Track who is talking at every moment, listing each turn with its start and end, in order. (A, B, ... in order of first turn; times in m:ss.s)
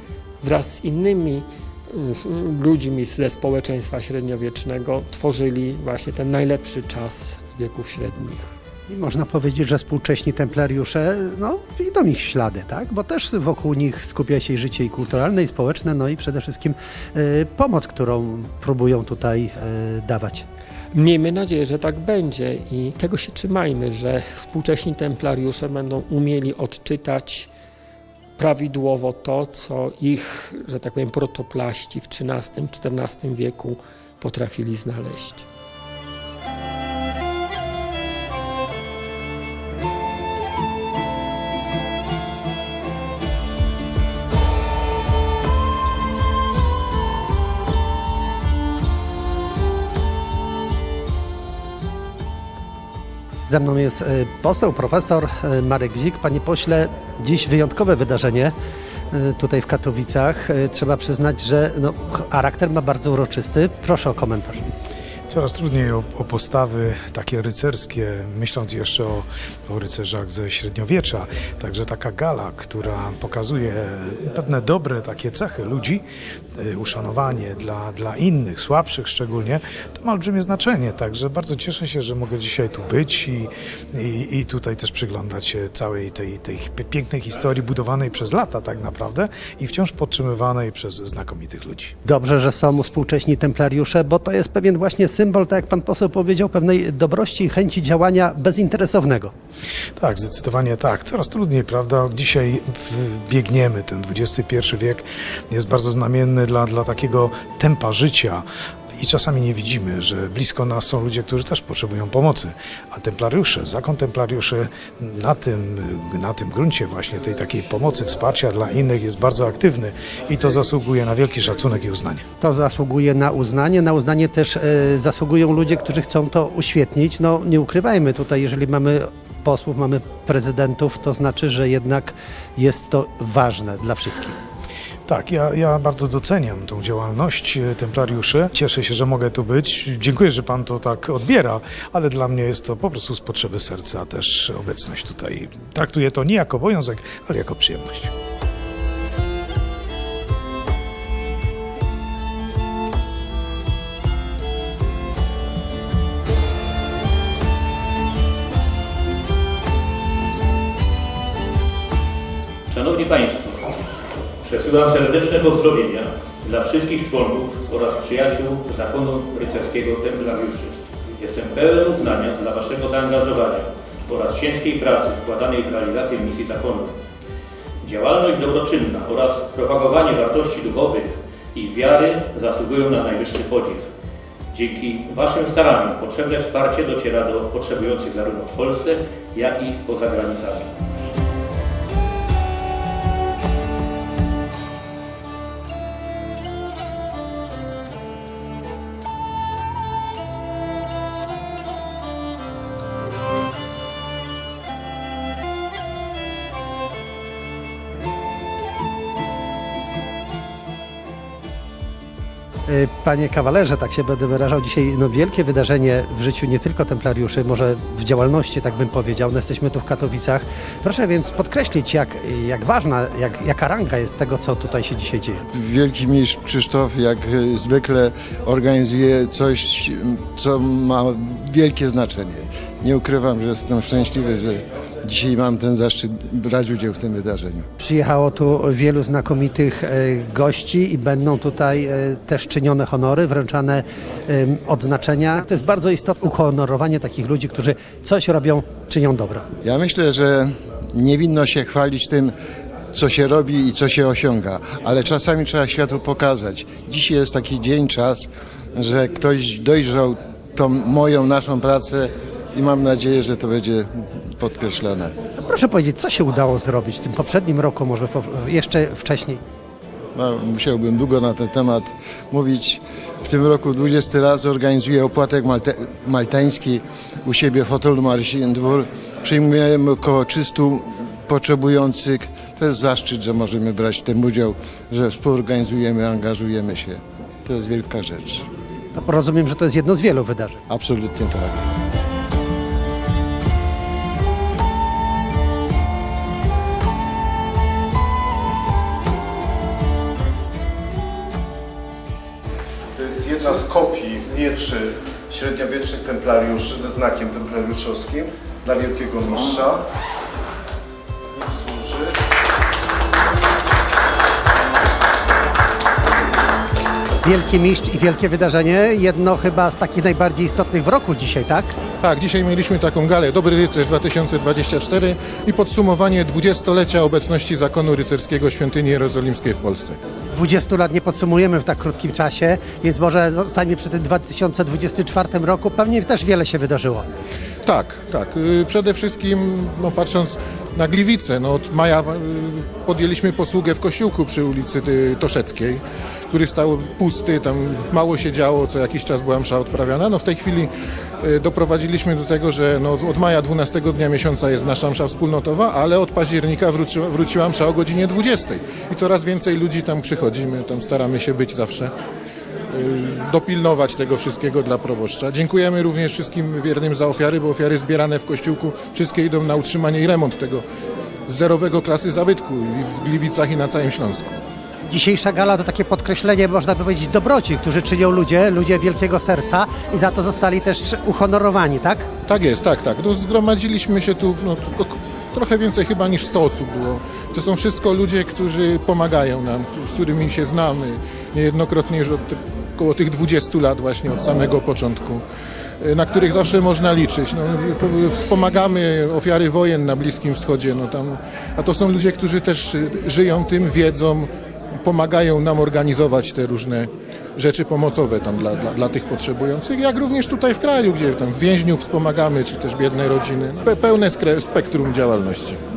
0:00.4-0:08.5 A
0:08.9-0:20.4 B
0:20.9-0:27.5 A
0:28.4-0:35.5 A
0:53.5-0:58.5 B
0:59.1-1:04.6 B
1:05.3-1:16.0 C
1:16.6-1:31.9 C
1:32.0-1:39.3 B
1:40.0-1:48.4 C
1:49.0-2:02.2 C
2:02.4-2:14.4 B
2:15.1-2:28.1 C
2:42.7-2:43.8 D
2:44.4-2:57.0 D
2:57.8-3:03.9 D
3:04.5-3:10.7 D
3:32.7-3:45.4 B
3:45.5-3:57.7 E
3:57.8-4:09.4 B
4:09.6-4:12.3 E
4:12.9-4:25.2 E
4:25.4-4:29.4 B
4:30.2-4:48.4 E
4:49.0-4:50.6 B
4:50.7-4:51.6 E
5:03.0-5:09.8 F
5:11.3-5:12.1 F
5:17.2-5:21.8 B
5:22.0-5:30.0 G
5:30.3-5:37.0 B
5:37.6-6:01.9 G
6:02.7-6:10.6 G
6:11.3-6:14.4 G
6:14.9-6:22.1 B
6:22.3-6:35.2 G
6:35.8-6:44.3 G
6:44.8-6:55.6 G